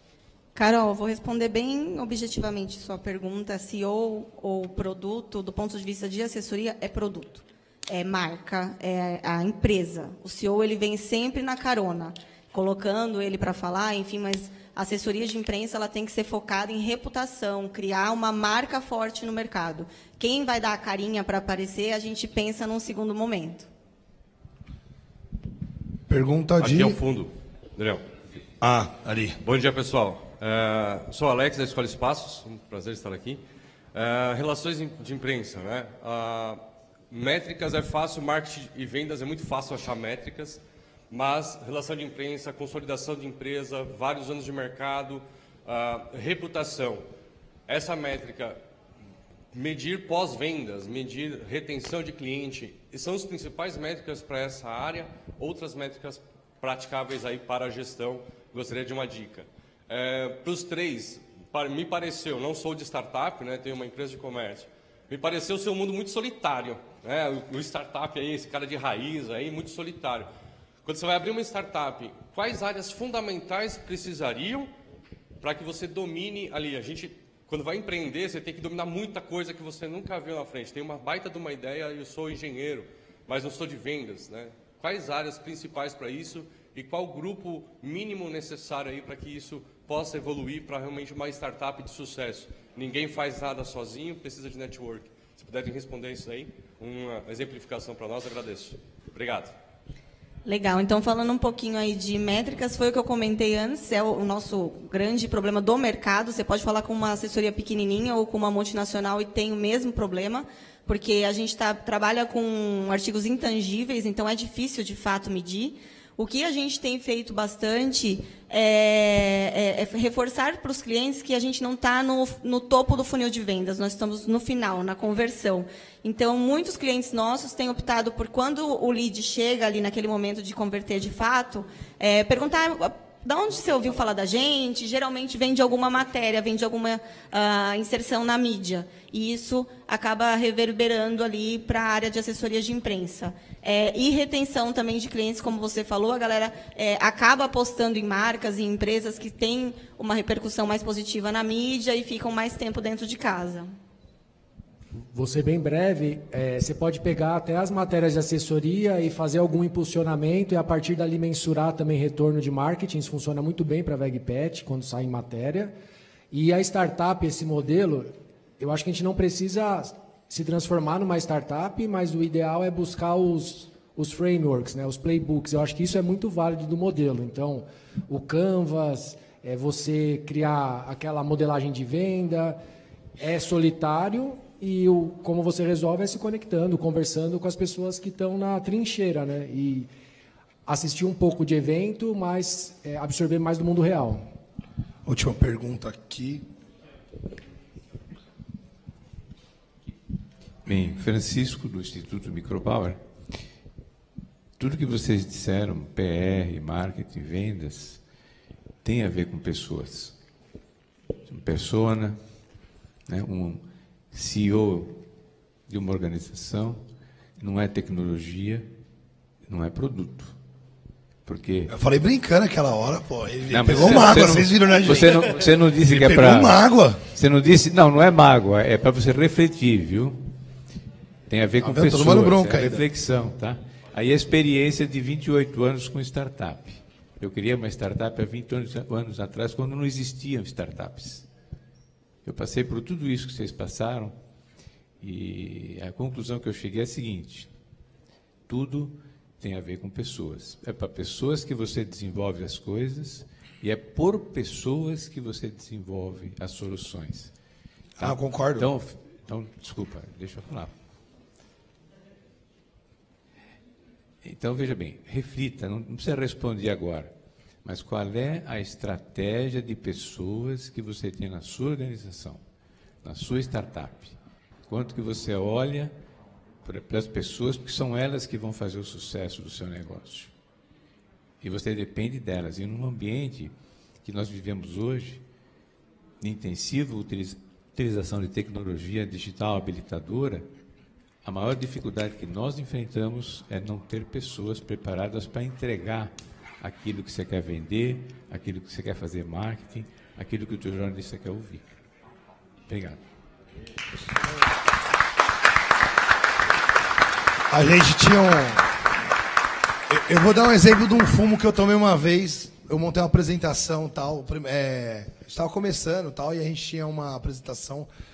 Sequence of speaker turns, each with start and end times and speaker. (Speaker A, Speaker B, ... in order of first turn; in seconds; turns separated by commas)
Speaker A: 0.5-23.7, Speaker B: 26.1-27.0, Speaker C: 26.6-28.0, Speaker B: 28.6-29.4, Speaker C: 29.4-33.4, Speaker C: 33.9-47.0, Speaker C: 47.7-48.6, Speaker C: 49.5-70.3, Speaker C: 70.8-74.7, Speaker C: 75.4-99.5, Speaker A: 100.5-153.7, Speaker D: 155.0-165.7, Speaker D: 166.3-182.6, Speaker D: 183.2-189.9, Speaker D: 190.7-194.3, Speaker B: 195.1-196.4, Speaker E: 200.6-203.0, Speaker E: 204.6-208.0, Speaker E: 208.8-210.2, Speaker E: 211.3-212.2, Speaker E: 213.1-215.0, Speaker E: 215.7-216.8, Speaker E: 217.4-218.7, Speaker E: 219.4-220.3, Speaker E: 221.2-221.7, Speaker B: 221.7-227.0, Speaker E: 223.5-230.2, Speaker E: 231.3-241.3, Speaker B: 231.6-232.9, Speaker E: 242.2-244.1, Speaker E: 245.0-247.5, Speaker E: 248.5-257.3, Speaker B: 258.0-258.7, Speaker E: 258.0-260.7, Speaker E: 264.2-267.1, Speaker E: 267.6-272.4, Speaker E: 273.0-274.1, Speaker E: 274.7-275.9, Speaker E: 276.6-280.3, Speaker E: 281.4-285.2, Speaker E: 286.2-290.4, Speaker E: 291.2-301.7, Speaker E: 302.7-303.0, Speaker B: 307.5-308.6, Speaker B: 309.9-317.9